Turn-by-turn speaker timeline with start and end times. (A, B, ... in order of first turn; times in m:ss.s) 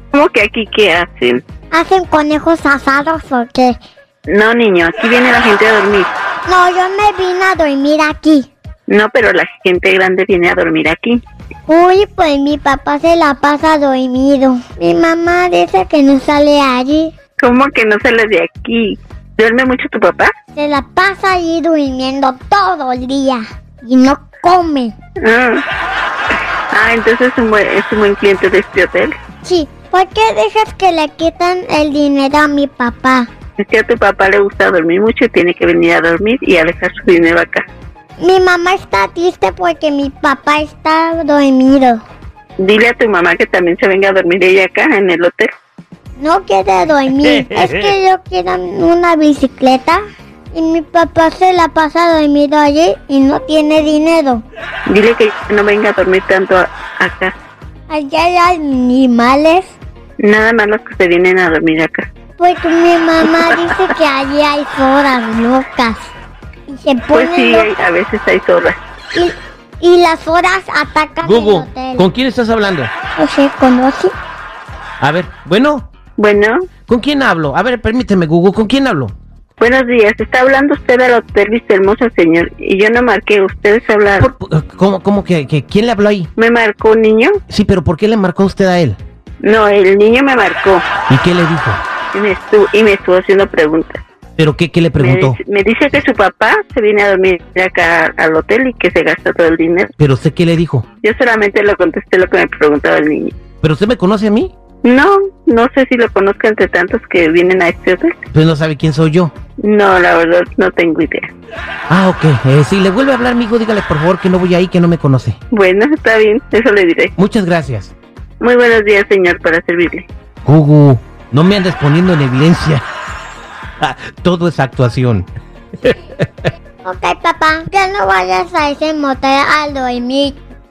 0:00.1-0:01.4 A
0:01.7-0:03.8 B
0:04.3-0:06.1 A
0:06.5-0:08.5 B
0:08.9-0:11.2 A
0:11.7-0:17.1 B
0:17.4-0:20.3 A
0:20.6-0:24.9 B
0:25.2-0:25.6 A
0:26.7-0:29.1 A
0:29.4-0:33.3 B
0:33.6-0:37.6 A
0:38.2-0:42.0 B
0:42.6-0:45.5 A
0:46.2-0:50.0 B
0:50.5-0:54.4 B
0:54.9-0:57.3 A
0:57.9-0:59.8 B
1:00.2-1:02.0 A
1:02.4-1:06.1 B
1:03.2-1:03.6 A
1:06.7-1:07.7 B
1:07.1-1:08.8 A
1:09.1-1:12.0 B
1:11.2-1:12.9 C
1:13.2-1:14.1 B
1:15.0-1:15.9 C
1:16.2-1:16.6 A
1:16.9-1:19.1 C
1:19.6-1:24.3 A
1:24.2-1:26.3 C
1:26.4-1:27.3 A
1:27.5-1:29.0 C
1:29.4-1:30.8 A
1:31.1-1:31.8 C
1:32.1-1:34.0 A
1:34.4-1:35.4 C
1:35.0-1:39.9 A
1:40.0-1:40.9 C
1:41.0-1:43.3 A
1:43.6-1:44.5 C
1:44.8-1:48.1 A
1:48.3-1:49.3 C
1:49.6-1:51.3 A
1:51.9-1:55.4 C
1:55.5-1:57.1 A
1:57.2-1:57.9 C
1:58.4-2:00.1 A
2:00.4-2:02.8 C
2:03.8-2:05.3 C
2:05.8-2:06.4 C
2:06.8-2:10.4 B